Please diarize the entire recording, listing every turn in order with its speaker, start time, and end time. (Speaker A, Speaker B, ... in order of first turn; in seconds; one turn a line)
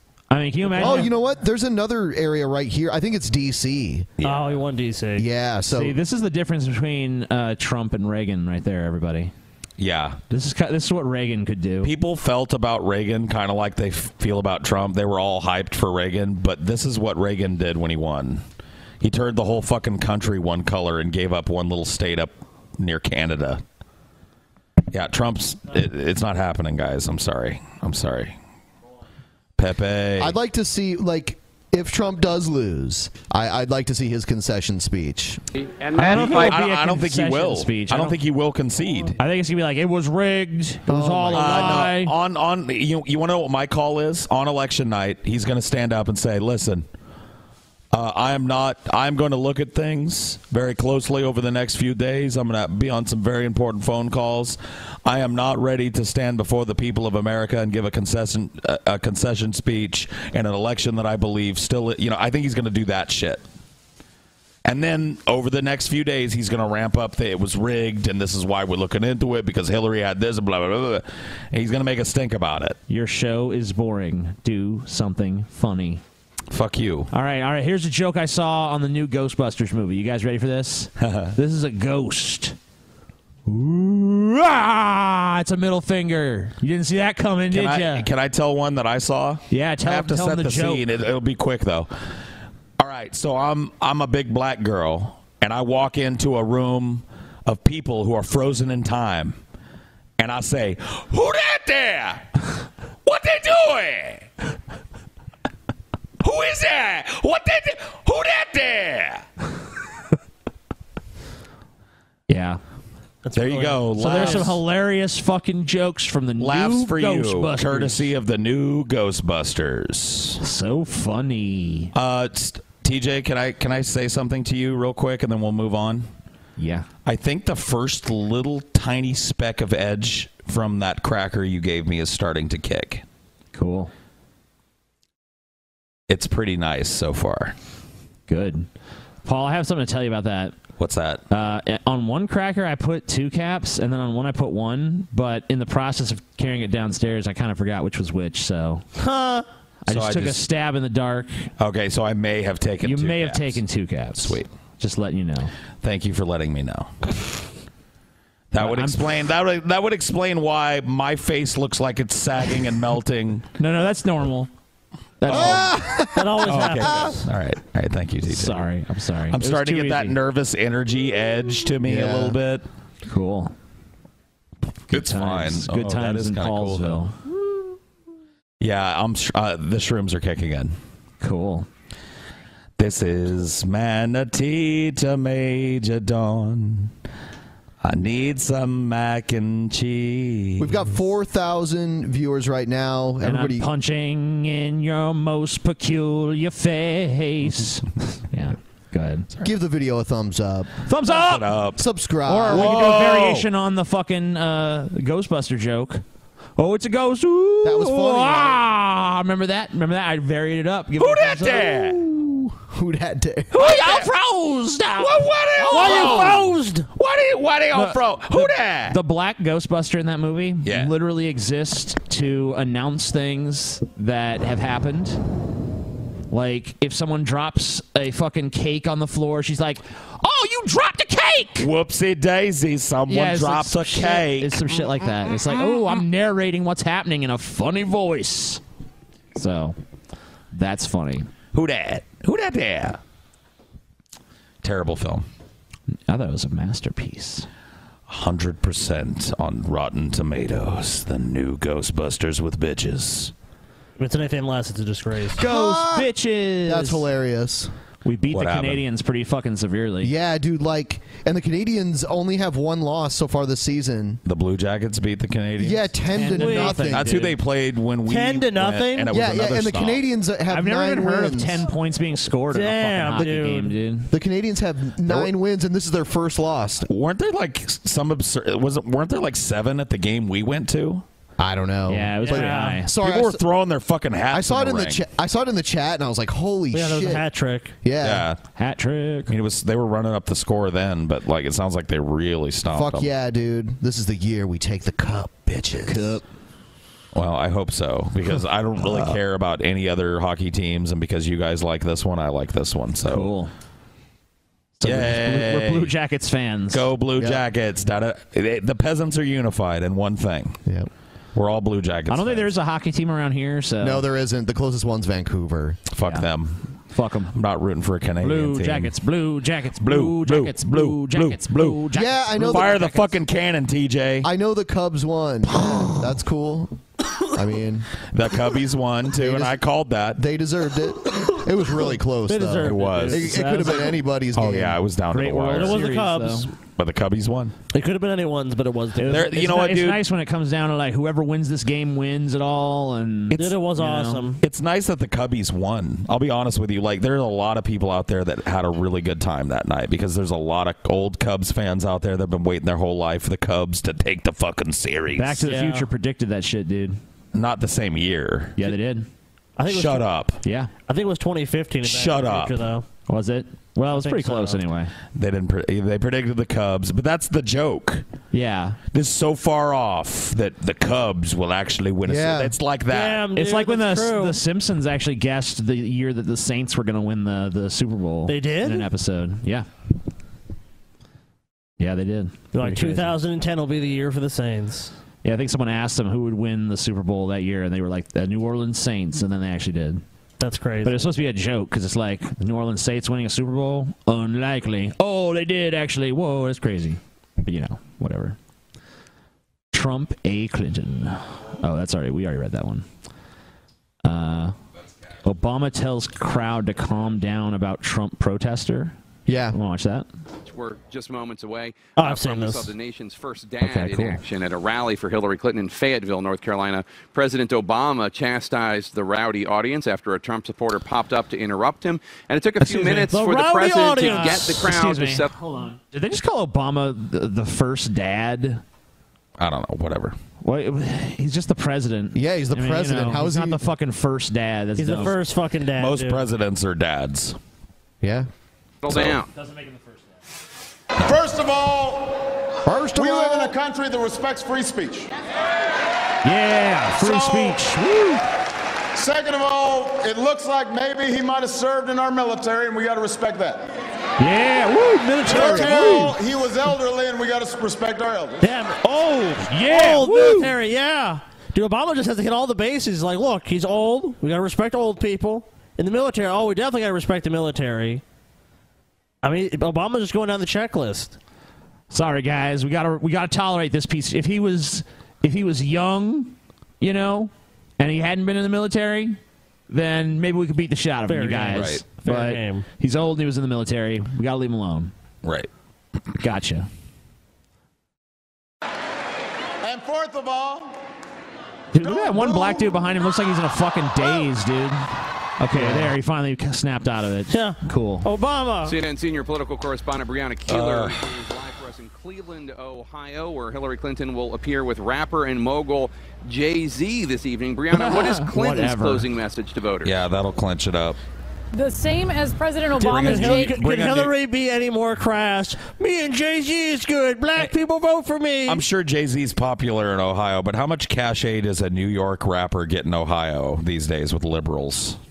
Speaker A: 0.3-1.1
Speaker B: 0.7-4.1
Speaker C: 4.2-4.6
Speaker D: 4.2-5.3
Speaker B: 5.2-6.0
Speaker A: 5.7-9.3
Speaker C: 9.8-10.2
Speaker A: 10.3-11.9
Speaker C: 11.8-18.4
Speaker C: 19.0-23.6
Speaker C: 24.9-28.4
Speaker C: 29.6-30.4
Speaker B: 30.2-35.4
Speaker A: 35.9-38.2
Speaker C: 36.0-39.2
Speaker A: 39.2-42.1
Speaker B: 40.9-41.9
Speaker C: 41.3-46.9
Speaker C: 47.9-63.4
Speaker C: 64.6-72.8
Speaker A: 72.9-76.0
Speaker C: 76.5-77.1
Speaker A: 77.1-82.5
Speaker C: 81.0-81.3
Speaker A: 83.5-88.1
Speaker C: 87.5-91.9
Speaker A: 89.5-90.8
Speaker C: 92.8-99.4
Speaker C: 100.2-102.2
Speaker C: 103.0-104.3
Speaker C: 106.2-109.2
Speaker A: 112.3-112.6
Speaker D: 113.2-114.6
Speaker C: 113.3-114.6
Speaker A: 114.0-118.1
Speaker C: 116.4-120.4
Speaker A: 120.4-121.9
Speaker C: 121.9-126.1
Speaker A: 126.6-126.9
Speaker C: 127.0-133.0
Speaker A: 133.5-133.9
Speaker C: 136.1-137.5
Speaker A: 138.3-138.7
Speaker A: 139.2-140.5
Speaker C: 140.8-141.2
Speaker A: 141.3-148.8
Speaker D: 149.0-149.4
Speaker A: 149.8-151.5
Speaker C: 149.9-150.4
Speaker C: 151.6-153.6
Speaker A: 152.8-155.5
Speaker C: 154.2-154.5
Speaker C: 155.8-156.9
Speaker C: 158.5-163.4
Speaker A: 158.6-159.1
Speaker A: 163.6-164.5
Speaker A: 165.2-165.7
Speaker C: 165.3-165.6
Speaker B: 165.3-167.2
Speaker D: 166.1-167.2
Speaker C: 166.4-168.7
Speaker A: 168.3-170.2
Speaker C: 169.3-172.6
Speaker B: 171.8-172.4
Speaker A: 173.1-173.5
Speaker C: 174.9-177.0
Speaker A: 174.9-177.1
Speaker C: 178.6-180.7
Speaker A: 181.2-181.7
Speaker C: 182.8-186.9
Speaker C: 187.8-190.8
Speaker B: 190.6-193.7
Speaker A: 193.2-199.3
Speaker B: 199.4-200.8
Speaker A: 200.9-201.6
Speaker C: 201.0-201.8
Speaker B: 201.8-203.0
Speaker A: 202.3-206.0
Speaker C: 202.5-203.5
Speaker A: 206.6-212.3
Speaker B: 207.6-208.6
Speaker C: 211.0-212.0
Speaker B: 212.6-213.6
Speaker A: 213.5-216.5
Speaker C: 213.6-214.1
Speaker C: 215.0-219.0
Speaker D: 215.6-216.9
Speaker A: 217.7-225.2
Speaker C: 220.6-220.9
Speaker A: 226.3-231.7
Speaker C: 231.6-234.6
Speaker A: 233.1-238.6
Speaker A: 239.3-239.8
Speaker A: 240.5-241.3
Speaker C: 241.5-243.0
Speaker C: 244.6-245.2
Speaker A: 246.1-247.5
Speaker C: 248.1-253.3
Speaker D: 254.0-255.4
Speaker B: 255.4-256.1
Speaker A: 255.4-257.1
Speaker B: 256.6-257.7
Speaker A: 258.0-260.1
Speaker C: 258.3-258.8
Speaker B: 260.0-264.2
Speaker C: 264.2-265.9
Speaker B: 265.6-267.1
Speaker A: 266.1-267.3
Speaker D: 266.3-266.8
Speaker C: 266.9-270.0
Speaker D: 268.1-269.1
Speaker B: 269.1-271.6
Speaker A: 270.5-274.1
Speaker D: 272.5-273.7
Speaker B: 274.1-276.9
Speaker C: 276.9-281.0
Speaker B: 281.4-283.4
Speaker A: 281.9-282.9
Speaker D: 282.2-282.8
Speaker C: 283.0-285.0
Speaker B: 284.3-287.2
Speaker D: 286.7-287.7
Speaker B: 287.8-288.3
Speaker C: 288.0-288.4
Speaker A: 288.6-289.3
Speaker C: 289.3-293.1
Speaker B: 292.7-296.2
Speaker A: 295.9-296.2
Speaker C: 297.1-303.3
Speaker A: 303.1-303.5
Speaker A: 304.8-306.9
Speaker C: 304.8-305.9
Speaker C: 306.7-310.6
Speaker C: 311.3-312.5
Speaker A: 312.1-314.0
Speaker B: 313.8-315.8
Speaker C: 315.9-316.7
Speaker A: 316.9-317.3
Speaker C: 317.3-318.9
Speaker A: 318.2-323.1
Speaker C: 319.8-321.8
Speaker B: 321.9-322.8
Speaker C: 322.4-324.3
Speaker B: 324.2-326.8
Speaker B: 327.3-327.9
Speaker C: 328.1-330.2
Speaker B: 329.1-329.6
Speaker B: 330.1-334.8
Speaker D: 332.3-333.9
Speaker C: 332.6-333.3
Speaker C: 334.3-335.9
Speaker A: 335.1-336.5
Speaker D: 335.5-336.5
Speaker C: 336.8-337.5
Speaker D: 337.7-339.3
Speaker A: 339.0-344.3
Speaker C: 339.1-340.0
Speaker D: 343.3-344.4
Speaker C: 344.4-355.5
Speaker A: 355.1-357.0
Speaker D: 355.4-355.9
Speaker C: 357.3-358.8
Speaker A: 358.6-359.1
Speaker D: 359.6-360.0
Speaker C: 359.7-360.4
Speaker A: 360.4-360.7
Speaker D: 360.9-362.9
Speaker C: 361.8-362.6
Speaker A: 363.1-364.9
Speaker D: 363.9-364.6
Speaker C: 365.1-368.0
Speaker A: 368.3-368.8
Speaker C: 368.9-373.3
Speaker B: 372.1-372.5
Speaker D: 372.9-374.4
Speaker A: 373.3-379.7
Speaker D: 378.3-378.9
Speaker A: 381.8-383.1
Speaker D: 382.5-384.9
Speaker A: 385.2-390.0
Speaker D: 390.4-391.1
Speaker A: 390.8-398.4
Speaker A: 399.7-402.9
Speaker A: 404.0-404.5
Speaker A: 405.2-408.9
Speaker B: 409.2-409.6
Speaker A: 409.5-410.1
Speaker E: 410.4-425.3
Speaker D: 412.0-412.7
Speaker A: 413.6-414.2
Speaker A: 422.6-428.6
Speaker D: 423.1-424.5
Speaker C: 429.4-430.1
Speaker A: 430.4-435.2
Speaker B: 432.1-433.6
Speaker D: 434.8-436.2
Speaker C: 435.8-437.4
Speaker B: 438.0-438.3
Speaker E: 438.8-439.3
Speaker C: 438.9-439.2
Speaker A: 439.4-439.7
Speaker F: 441.0-442.3
Speaker B: 442.6-443.5
Speaker F: 442.9-445.1
Speaker A: 446.2-448.2
Speaker F: 447.0-447.6
Speaker F: 448.9-453.7
Speaker A: 454.2-456.2
Speaker D: 455.2-456.0
Speaker F: 455.3-458.5
Speaker D: 458.4-468.0
Speaker A: 459.6-460.5
Speaker D: 469.2-471.2
Speaker A: 471.9-479.2
Speaker A: 479.7-484.9
Speaker D: 481.1-482.7
Speaker C: 481.5-481.8
Speaker C: 485.2-485.5
Speaker A: 486.2-486.7
Speaker F: 489.6-490.8
Speaker A: 491.7-498.1
Speaker F: 491.8-492.7
Speaker D: 495.5-495.9
Speaker D: 497.3-498.8
Speaker E: 498.6-509.9
Speaker C: 500.5-501.0
Speaker A: 507.7-509.1
Speaker C: 509.8-511.0
Speaker G: 511.5-513.5
Speaker D: 512.8-518.6
Speaker C: 512.8-514.1
Speaker C: 518.5-525.0